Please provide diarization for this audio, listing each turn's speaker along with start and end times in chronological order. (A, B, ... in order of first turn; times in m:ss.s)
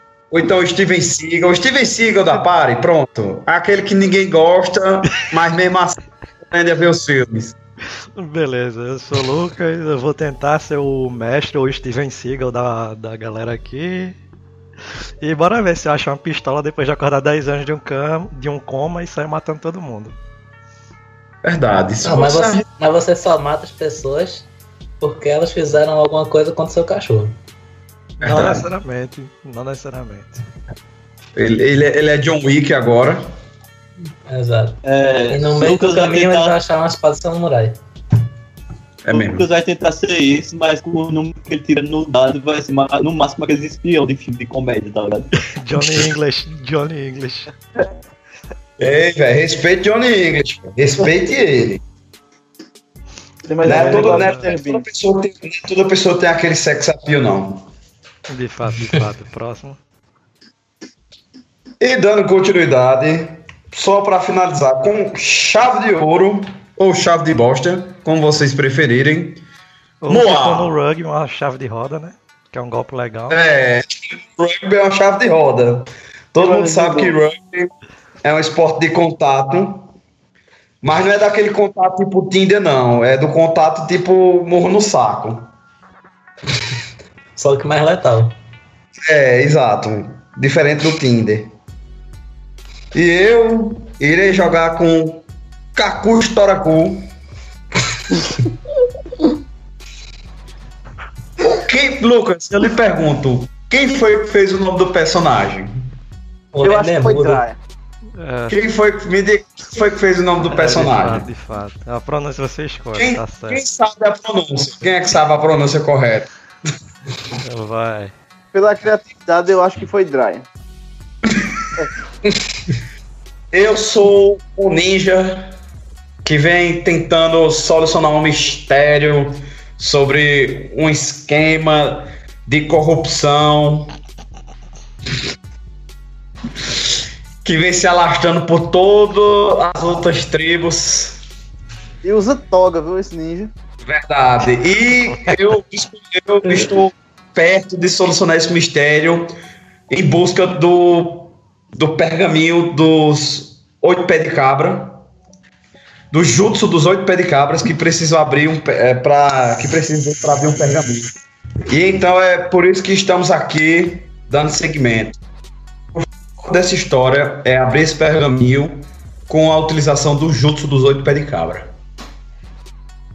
0:00.3-0:06.0 A
0:06.5-0:07.5 A
0:08.2-0:14.2 B
0:15.2-0:20.2 B
0:21.4-0:22.6 A
0:22.0-0:24.5 C
0:25.0-0:27.3 C
0:28.2-0:28.7 A
0:28.2-0:30.4 B
0:31.4-0:33.3 A
0:34.3-0:37.8 C
0:34.8-0:36.5 D
0:39.0-0:39.5 A
0:39.1-0:45.3 D
0:45.5-0:47.5 B
0:48.8-0:51.8 A
0:53.4-0:54.8 E
0:53.6-0:54.5 B
0:53.6-0:57.6 A
0:58.3-0:59.8 B
1:01.8-1:09.4 A
1:10.0-1:13.4 B
1:10.1-1:10.7 A
1:13.3-1:17.7 A
1:16.4-1:17.2 E
1:18.2-1:19.8 A
1:20.8-1:25.5 A
1:27.4-1:28.4 C
1:29.0-1:31.5 A
1:32.9-1:35.2 A
1:35.8-1:37.1 A
1:41.4-1:45.7 A
1:46.5-1:47.4 C
1:46.6-1:47.6 E
1:48.2-1:48.6 B
1:48.5-1:51.3 A
1:50.5-1:53.6 B
1:53.0-1:56.3 A
1:57.4-1:58.1 B
1:58.5-2:00.4 E
2:03.5-2:05.5 A
2:06.2-2:13.9 A
2:17.4-2:21.2 A
2:22.0-2:23.5 E
2:23.8-2:29.3 A
2:25.1-2:25.4 B
2:29.9-2:35.0 A
2:36.1-2:41.1 A
2:41.7-2:45.2 A
2:45.9-2:51.7 A